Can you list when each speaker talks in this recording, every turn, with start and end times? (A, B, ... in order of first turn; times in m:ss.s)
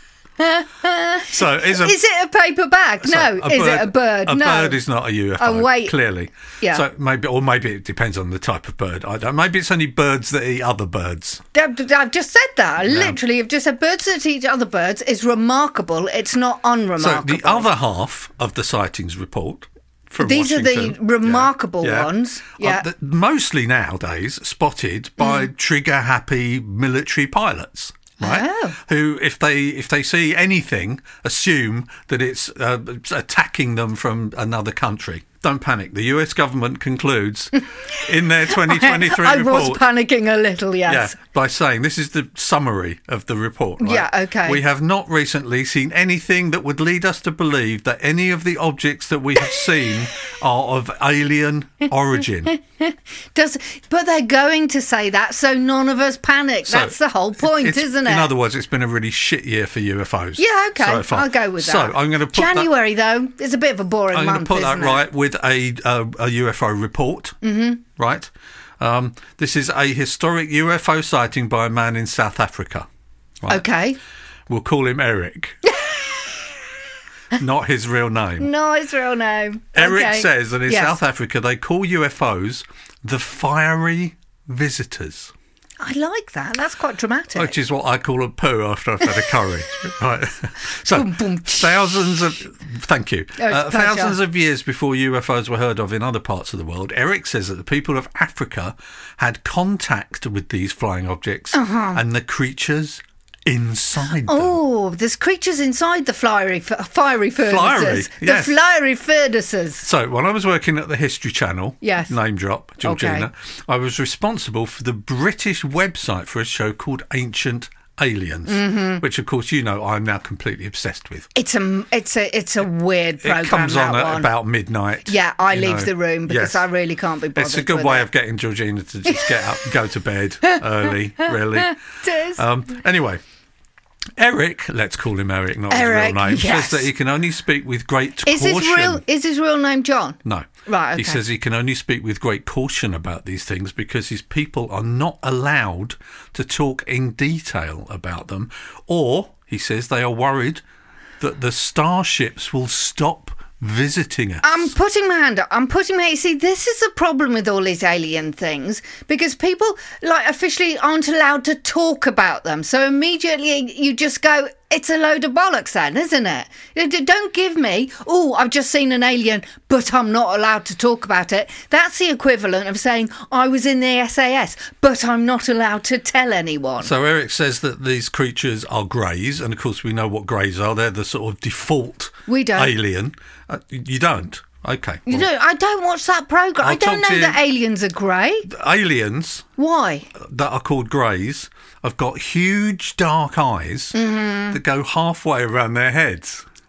0:00.4-0:04.8 A
0:01.3-0:02.0 B
0:03.0-0:11.4 B
0:05.4-0:06.0 A
0:11.5-0:17.7 A
0:12.9-0:13.2 B
0:17.0-0:39.8 B
0:20.2-0:22.8 A
0:25.2-0:25.5 A
0:28.2-0:28.8 A
0:38.0-0:41.1 A
0:40.9-0:52.5 B
0:43.8-0:44.6 A
0:52.5-0:58.3 A
0:56.6-1:02.7 B
1:00.4-1:05.0 A
1:04.1-1:07.4 B
1:07.4-1:07.8 A
1:08.0-1:12.9 B
1:13.5-1:14.0 A
1:14.5-1:15.6 B
1:15.7-1:16.3 A
1:17.3-1:18.5 B
1:18.4-1:21.0 A
1:19.7-1:25.3 B
1:25.8-1:27.5 A
1:27.3-1:44.6 B
1:30.9-1:31.9 A
1:33.4-1:34.2 A
1:41.5-1:42.0 A
1:44.2-1:49.8 A
1:47.4-1:48.6 B
1:49.8-2:01.3 B
1:51.8-1:52.1 A
1:52.8-1:53.3 A
1:58.5-1:59.0 A
2:01.3-2:04.3 A
2:03.2-2:06.6 B
2:05.0-2:08.1 A
2:07.3-2:11.8 B
2:11.2-2:12.4 A
2:12.3-2:13.2 B
2:14.2-2:19.0 B
2:15.7-2:16.9 A
2:18.2-2:21.2 A
2:20.2-2:30.6 B
2:31.2-2:34.7 B
2:34.4-2:56.9 A
2:56.8-3:05.3 B
3:02.3-3:02.7 A
3:05.1-3:08.5 A
3:06.6-3:07.4 B
3:08.5-3:09.5 B
3:09.6-3:10.1 A
3:10.1-3:14.0 B
3:13.9-3:14.6 A
3:14.5-3:16.4 B